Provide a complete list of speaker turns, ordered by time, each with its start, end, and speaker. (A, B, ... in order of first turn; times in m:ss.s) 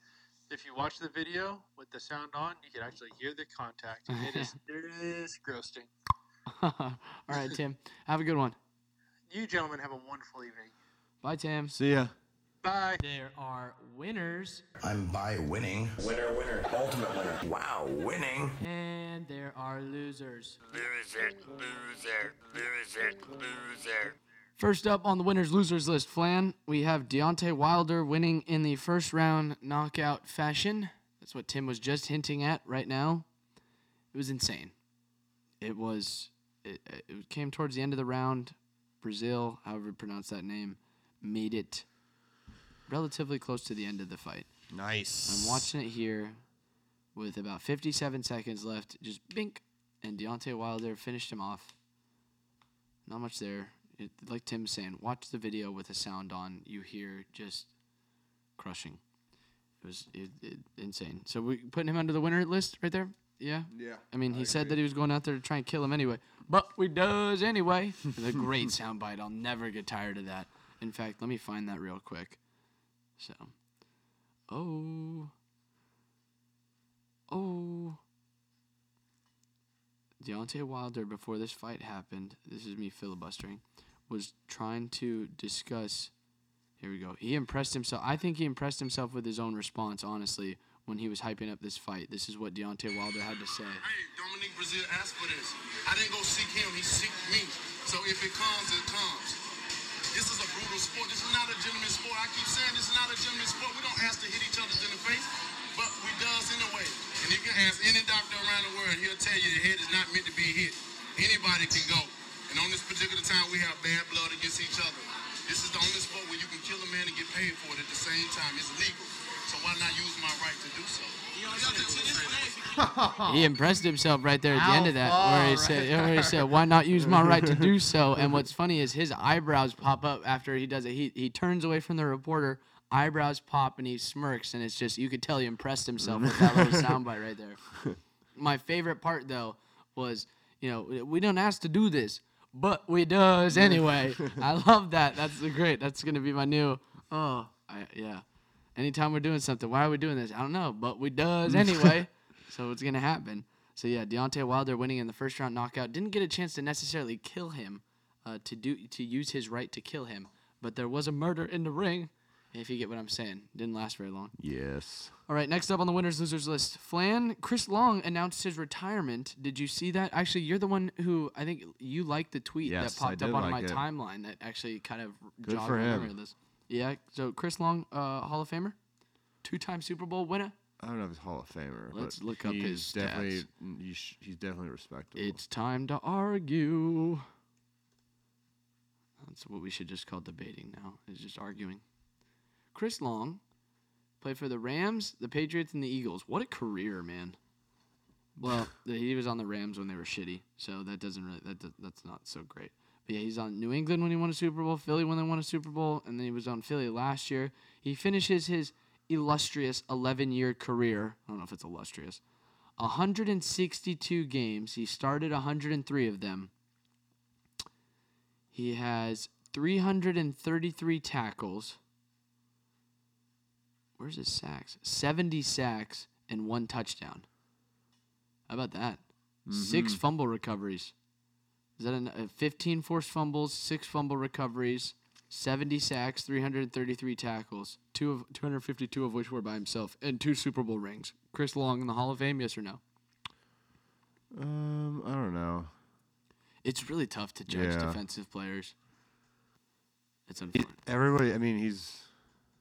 0:00.5-0:05.9 A
0:04.1-0:04.5 B
0:06.5-0:08.6 B
0:09.3-0:10.7 A
0:11.2-0:11.8 B
0:11.7-0:12.1 C
0:12.6-0:13.0 A
0:13.0-0:14.6 B
0:14.8-0:18.6 D
0:18.6-0:20.6 B
0:20.7-0:24.2 D
0:24.6-0:33.3 B
0:34.1-0:34.7 B
0:35.6-0:41.9 B
0:42.9-0:44.5 B
0:44.7-0:45.7 C
0:45.3-0:46.4 B
0:47.2-0:51.7 B
0:53.1-0:57.7 B
0:58.6-0:59.0 B
0:59.8-1:12.4 B
1:03.7-1:04.8 C
1:13.2-1:13.5 B
1:14.5-1:15.3 B
1:17.3-1:18.0 B
1:20.2-1:26.1 B
1:26.8-1:33.8 B
1:33.8-1:39.4 E
1:40.1-2:02.6 E
2:02.7-2:03.5 C
2:03.2-2:17.6 B
2:04.5-2:08.4 C
2:16.0-2:17.0 C
2:18.4-2:28.2 B
2:23.5-2:24.4 C
2:28.8-2:44.3 B
2:31.5-2:32.0 C
2:44.4-2:45.1 C
2:45.3-2:58.8 B
2:52.6-2:53.8 C
2:55.4-2:56.1 C
2:59.4-3:00.6 B
3:00.8-3:05.4 C
3:01.9-3:03.5 B
3:05.2-3:07.3 B
3:09.2-3:11.8 B
3:12.7-3:13.4 B
3:14.2-3:17.4 B
3:18.4-3:32.2 B
3:32.8-3:36.5 B
3:38.5-3:41.8 B
3:44.0-3:47.2 B
3:48.5-3:50.9 B
3:49.5-3:50.0 C
3:51.8-4:02.8 B
4:04.3-4:05.7 C
4:06.6-4:08.7 B
4:07.5-4:08.0 C
4:10.3-4:10.7 B
4:10.5-4:12.1 C